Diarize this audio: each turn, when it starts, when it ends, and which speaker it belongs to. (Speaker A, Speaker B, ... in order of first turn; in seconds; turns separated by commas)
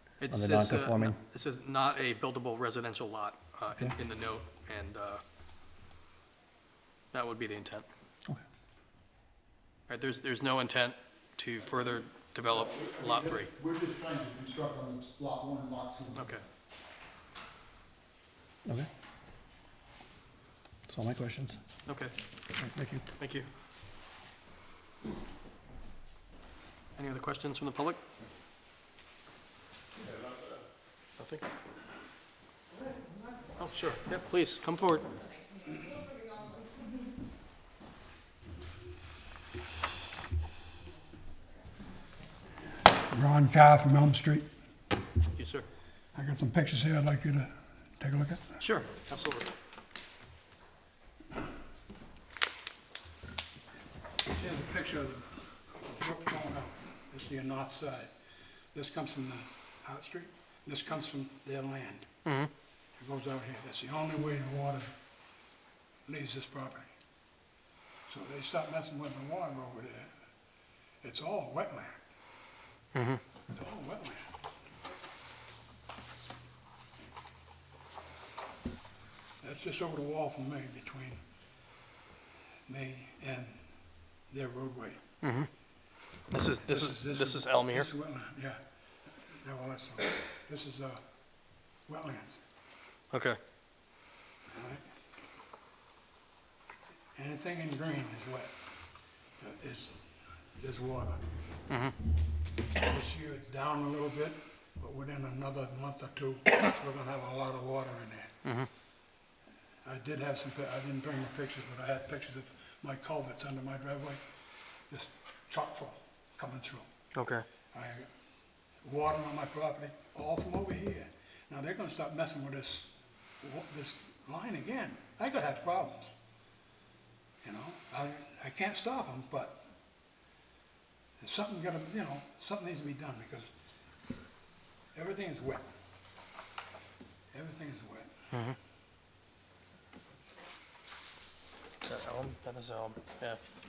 Speaker A: 0.2-5.2, Speaker B: 0.3-1.2, Speaker A: 7.1-7.9, Speaker A: 9.9-13.5, Speaker C: 12.9-16.4, Speaker A: 16.2-16.4, Speaker B: 20.9-21.6, Speaker A: 21.9-22.1, Speaker B: 22.6-23.1, Speaker A: 23.2-23.5, Speaker A: 27.0-28.0, Speaker A: 31.2-31.4, Speaker A: 33.6-35.1, Speaker D: 43.0-44.5, Speaker A: 45.4-45.7, Speaker D: 46.1-48.5, Speaker A: 48.6-49.5, Speaker D: 54.3-55.3, Speaker D: 55.8-58.1, Speaker D: 58.7-62.1, Speaker A: 62.2-62.5, Speaker D: 63.0-64.9, Speaker D: 66.1-66.9, Speaker D: 68.1-70.1, Speaker D: 71.0-72.0, Speaker A: 73.0-73.2, Speaker D: 73.5-74.2, Speaker D: 79.4-81.2, Speaker D: 82.7-83.6, Speaker D: 84.3-85.0, Speaker A: 85.2-85.5, Speaker A: 86.3-87.9, Speaker D: 86.6-91.0, Speaker D: 91.9-92.4, Speaker A: 93.1-93.4, Speaker D: 94.5-94.8, Speaker D: 97.2-98.6, Speaker D: 99.4-100.0, Speaker D: 100.6-101.2, Speaker A: 101.7-102.0, Speaker D: 102.8-108.3, Speaker D: 109.8-114.2, Speaker D: 114.9-116.9, Speaker A: 117.2-117.5, Speaker D: 117.7-118.1, Speaker D: 118.8-126.1, Speaker D: 127.4-129.7, Speaker D: 131.2-133.5, Speaker D: 134.9-135.7, Speaker D: 137.3-138.2, Speaker A: 141.8-143.4